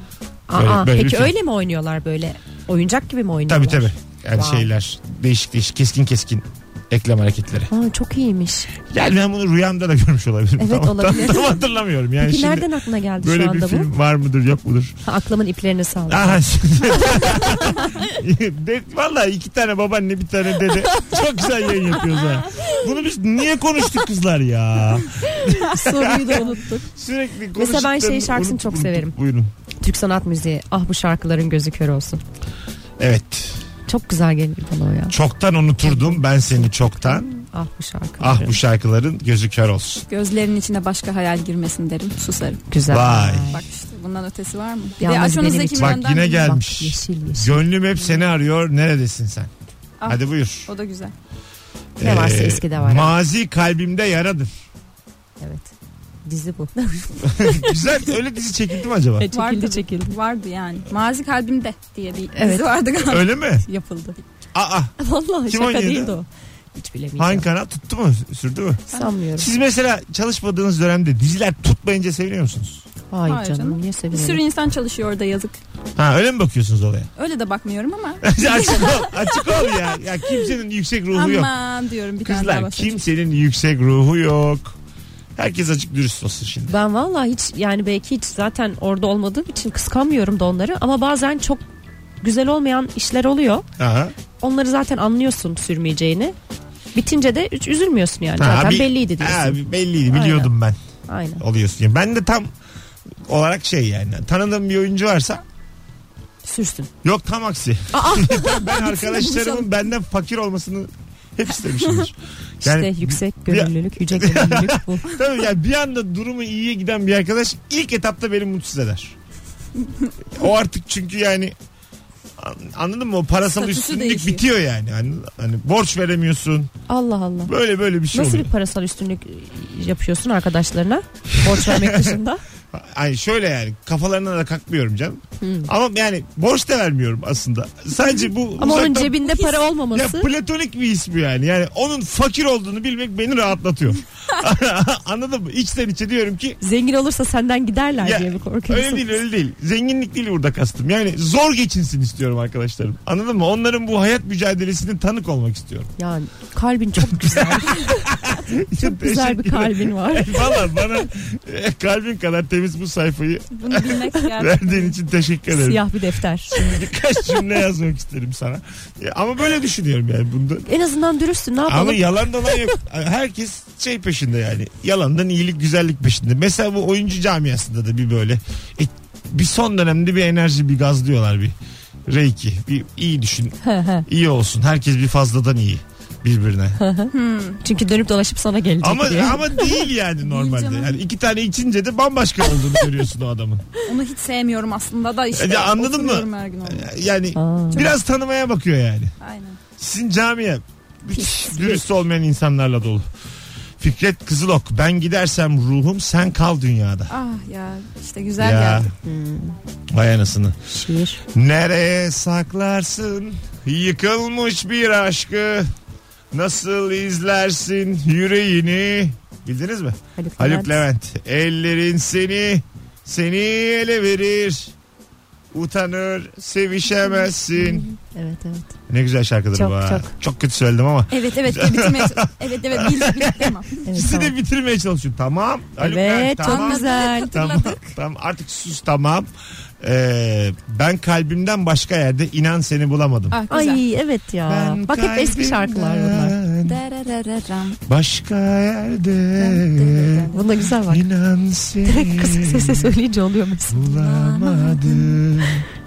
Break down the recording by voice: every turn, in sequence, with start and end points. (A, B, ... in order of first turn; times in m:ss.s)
0:00.5-0:04.7 A
0:00.5-0:01.3 B
0:03.5-0:07.7 B
0:07.7-0:08.7 A
0:08.9-0:15.0 B
0:10.6-0:11.6 A
0:12.2-0:13.9 A
0:15.0-0:18.0 A
0:16.1-0:29.5 B
0:20.9-0:21.2 A
0:21.7-0:21.9 A
0:22.5-0:22.9 A
0:25.2-0:26.9 A
0:27.5-0:29.1 A
0:29.8-0:32.2 A
0:33.0-0:33.6 B
0:33.9-0:35.2 A
0:35.1-0:37.3 B
0:35.8-0:38.6 A
0:38.2-0:40.0 B
0:40.1-0:42.6 C
0:42.7-0:43.6 A
0:42.9-0:43.5 B
0:43.5-0:46.4 C
0:45.0-0:48.2 A
0:45.7-0:49.5 B
0:50.0-0:51.1 C
0:50.0-0:50.7 B
0:52.0-0:54.6 B
0:52.0-0:53.1 A
0:55.4-0:55.7 A
0:56.2-0:57.9 A
0:57.2-0:59.3 B
0:59.2-1:00.2 A
0:59.3-1:03.3 C
1:02.3-1:02.8 A
1:03.0-1:03.6 B
1:03.6-1:04.2 A
1:04.5-1:04.9 B
1:05.0-1:07.5 A
1:05.4-1:06.2 B
1:07.2-1:08.8 B
1:08.9-1:09.5 A
1:09.4-1:12.8 B
1:13.1-1:14.4 A
1:13.3-1:15.6 C
1:16.0-1:17.1 B
1:17.2-1:19.8 C
1:18.2-1:21.5 B
1:21.1-1:23.0 C
1:22.2-1:24.8 B
1:25.4-1:26.8 B
1:26.7-1:31.6 A
1:32.2-1:33.6 A
1:33.8-1:34.1 B
1:34.4-1:36.3 A
1:36.9-1:40.5 A
1:38.4-1:40.8 B
1:41.1-1:41.4 A
1:41.4-1:42.5 B
1:43.3-1:45.4 B
1:46.4-1:46.9 A
1:47.0-1:59.1 B
1:47.9-1:49.4 A
1:49.1-1:49.6 C
1:52.6-1:55.1 A
2:00.3-2:01.5 B
2:02.4-2:06.7 B
2:03.6-2:04.4 C
2:06.9-2:07.5 A
2:07.5-2:08.5 B
2:08.1-2:12.4 A
2:11.3-2:12.2 B
2:12.7-2:19.3 B
2:15.4-2:15.7 A
2:18.6-2:20.3 A
2:19.3-2:19.6 C
2:19.9-2:26.6 B
2:26.6-2:29.2 A
2:28.0-2:35.9 B
2:36.0-2:38.0 A
2:37.0-2:45.9 B
2:38.8-2:40.7 A
2:43.5-2:45.0 C
2:45.5-2:46.5 A
2:46.5-2:50.7 B
2:50.6-2:52.7 A
2:51.6-3:01.5 B
3:02.1-3:06.8 B
3:03.6-3:04.0 A
3:06.8-3:09.8 A
3:07.1-3:07.6 C
3:08.8-3:13.7 B
3:10.2-3:11.0 C
3:13.8-3:16.9 C
3:15.3-3:19.1 B
3:17.3-3:17.9 A
3:19.2-3:19.6 C
3:19.8-3:23.1 B
3:21.1-3:21.8 C
3:23.8-3:27.1 B
3:27.1-3:28.9 C
3:28.4-3:28.9 B
3:29.0-3:29.6 A
3:29.9-3:30.6 B
3:30.7-3:31.2 A
3:31.3-3:35.7 B
3:36.3-3:44.7 B
3:40.2-3:40.8 A
3:45.5-3:47.9 B
3:47.6-3:48.7 A
3:48.9-3:59.3 B
3:49.5-3:50.1 A
3:51.1-3:53.8 C
3:53.8-3:54.3 A
3:55.8-3:57.3 A
3:56.4-3:57.9 C
3:59.8-4:03.4 B
4:03.3-4:03.8 C
4:03.5-4:06.4 A
4:04.5-4:06.8 B
4:06.6-4:07.8 C
4:07.9-4:10.3 B
4:09.4-4:10.6 C
4:10.3-4:11.0 A
4:10.8-4:13.0 B
4:11.8-4:15.2 A
4:13.7-4:15.7 B